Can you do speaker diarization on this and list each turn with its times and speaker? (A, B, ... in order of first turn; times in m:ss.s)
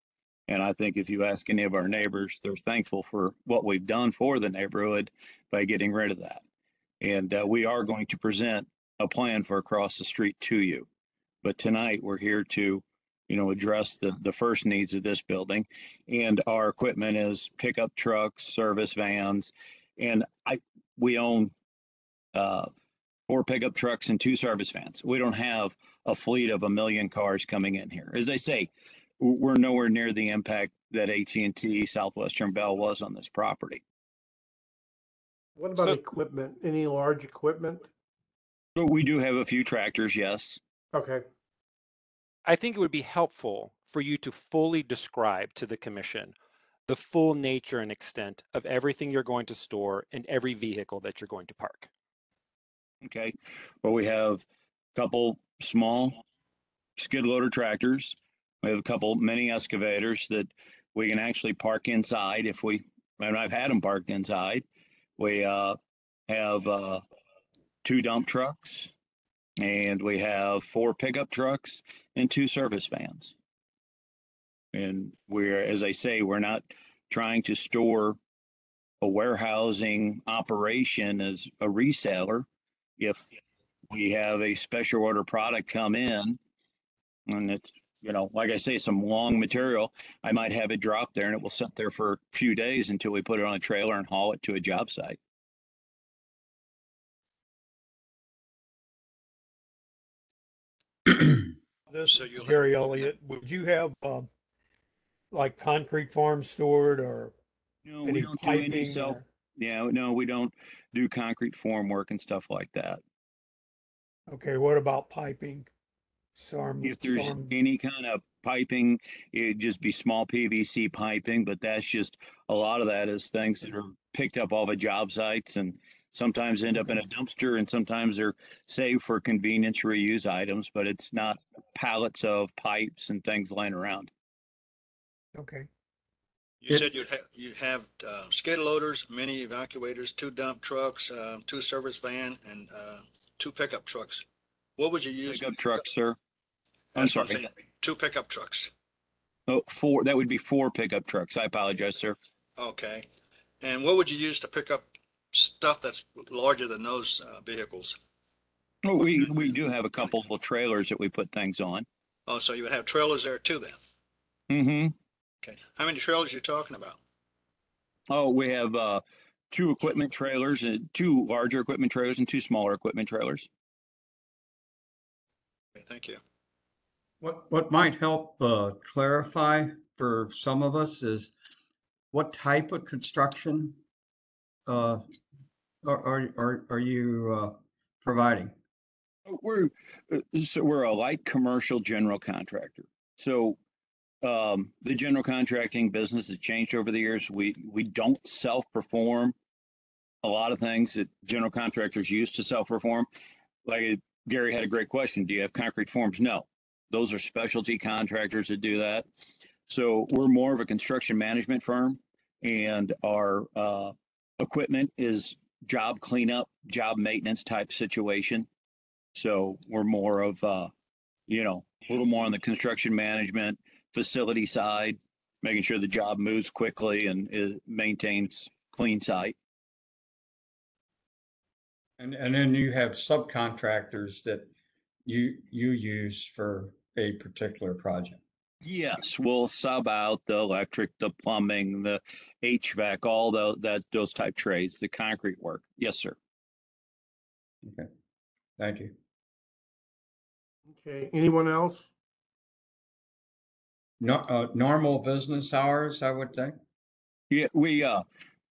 0:00.5-0:06.4 A
0:07.0-0:10.8 A
0:11.4-0:21.5 A
0:22.3-0:22.7 A
0:23.3-0:33.8 A
0:35.6-0:37.9 B
0:38.8-0:40.6 A
0:40.9-0:41.2 B
0:42.4-0:46.3 C
0:46.9-0:51.9 C
0:53.0-0:56.2 A
0:57.0-1:04.6 A
1:05.2-1:05.8 A
1:06.3-1:07.0 A
1:07.8-1:08.9 A
1:09.6-1:13.3 A
1:14.7-1:18.2 A
1:19.0-1:22.4 A
1:23.0-1:23.2 A
1:23.9-1:26.4 A
1:27.3-1:35.2 A
1:41.9-1:44.3 D
1:42.0-1:43.1 E
1:45.3-1:47.3 D
1:47.8-1:53.0 A
1:48.0-1:49.2 D
1:54.3-1:55.7 D
1:56.4-1:57.5 D
1:56.8-2:14.1 A
2:06.7-2:07.0 D
2:15.3-2:15.7 D
2:16.6-2:24.2 E
2:24.8-2:25.9 E
2:25.3-2:26.2 A
2:26.9-2:28.7 E
2:27.0-2:27.4 A
2:29.5-2:32.2 A
2:32.6-2:33.1 E
2:33.6-2:38.0 E
2:38.8-2:41.8 A
2:39.0-2:40.1 E
2:42.3-2:43.8 E
2:44.5-2:44.9 A
2:45.4-2:47.0 E
2:48.1-2:53.5 A
2:55.7-2:56.2 E
2:57.2-3:01.3 F
3:02.1-3:03.8 F
3:04.6-3:05.0 F
3:05.8-3:08.5 F
3:09.2-3:13.6 A
3:14.2-3:19.3 A
3:20.2-3:23.1 A
3:23.6-3:29.0 A
3:29.7-3:38.5 A
3:39.1-3:40.7 A
3:41.3-3:49.3 A
3:52.0-3:54.5 F
3:55.0-3:58.2 F
3:58.6-4:06.2 A
4:07.6-4:07.9 F
4:08.6-4:08.9 F
4:10.7-4:11.9 B
4:14.0-4:16.6 F
4:17.3-4:18.0 A